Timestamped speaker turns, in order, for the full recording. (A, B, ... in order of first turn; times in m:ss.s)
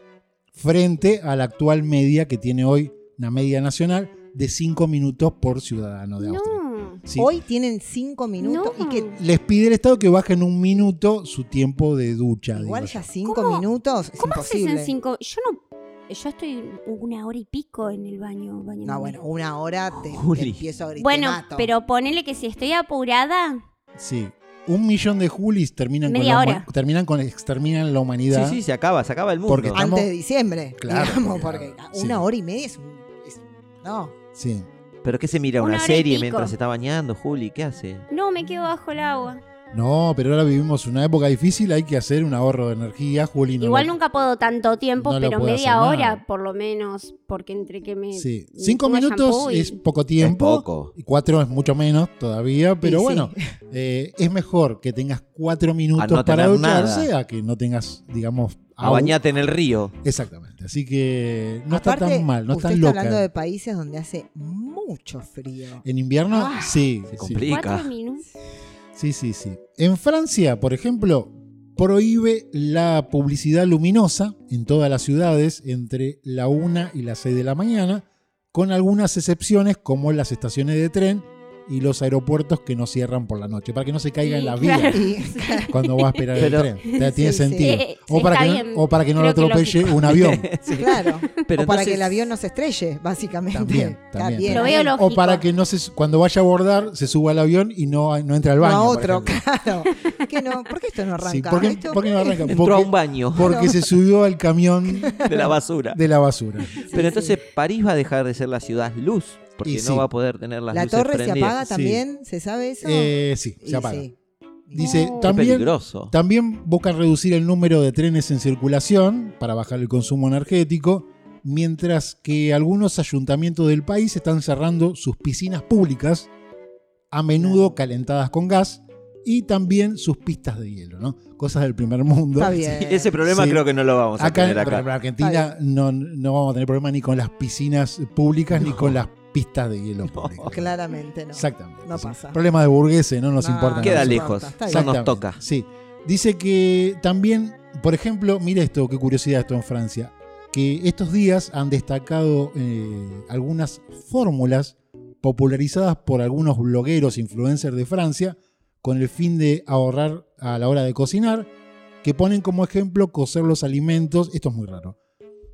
0:00.5-0:07.3 A
0:06.2-0:07.0 B
0:07.2-0:09.2 C
0:08.4-0:09.2 B
0:09.1-0:13.1 A
0:12.5-0:14.9 C
0:13.2-0:13.6 B
0:14.2-0:19.2 B
0:18.8-0:21.7 C
0:20.1-0:20.6 D
0:21.0-0:23.6 B
0:24.0-0:28.6 A
0:26.0-0:26.7 B
0:28.3-0:29.8 D
0:29.5-0:30.1 A
0:29.7-0:34.1 C
0:30.8-0:32.2 A
0:34.3-0:34.7 A
0:35.0-0:38.0 D
0:35.6-0:36.5 B
0:38.1-0:39.4 B
0:39.7-0:43.9 A
0:43.6-0:49.8 B
0:45.0-0:46.2 A
0:48.1-0:59.2 A
0:50.2-0:50.9 D
0:52.8-0:53.5 C
0:56.0-0:57.1 D
0:58.8-0:59.9 D
1:00.0-1:03.2 A
1:01.7-1:06.9 C
1:05.8-1:07.5 A
1:07.1-1:07.9 D
1:07.4-1:08.2 B
1:08.9-1:25.0 A
1:24.2-1:26.2 B
1:24.9-1:25.7 C
1:25.7-1:30.5 A
1:26.3-1:26.7 D
1:26.9-1:30.2 B
1:27.0-1:27.8 C
1:30.0-1:32.2 D
1:30.7-1:34.9 C
1:33.5-1:39.4 A
1:34.5-1:35.4 B
1:38.6-1:42.5 C
1:41.2-1:46.8 A
1:42.4-1:43.8 D
1:43.4-1:43.7 C
1:45.0-1:45.5 C
1:45.2-1:46.0 D
1:46.8-1:47.4 C
1:46.9-1:51.6 D
1:49.6-1:50.0 A
1:50.7-1:54.1 C
1:51.6-1:52.0 A
1:52.8-1:54.1 A
1:54.7-1:55.2 C
1:54.7-2:06.3 A
1:54.8-1:55.3 B
1:55.2-1:56.1 D
2:07.1-2:13.6 A
2:07.4-2:07.7 C
2:12.4-2:13.1 C
2:12.8-2:14.8 D
2:14.2-2:20.7 A
2:15.2-2:15.5 C
2:18.5-2:19.0 D
2:20.1-2:20.6 D
2:20.4-2:22.4 C
2:21.3-2:41.5 A
2:23.4-2:24.9 C
2:23.8-2:25.4 D
2:42.0-2:45.0 A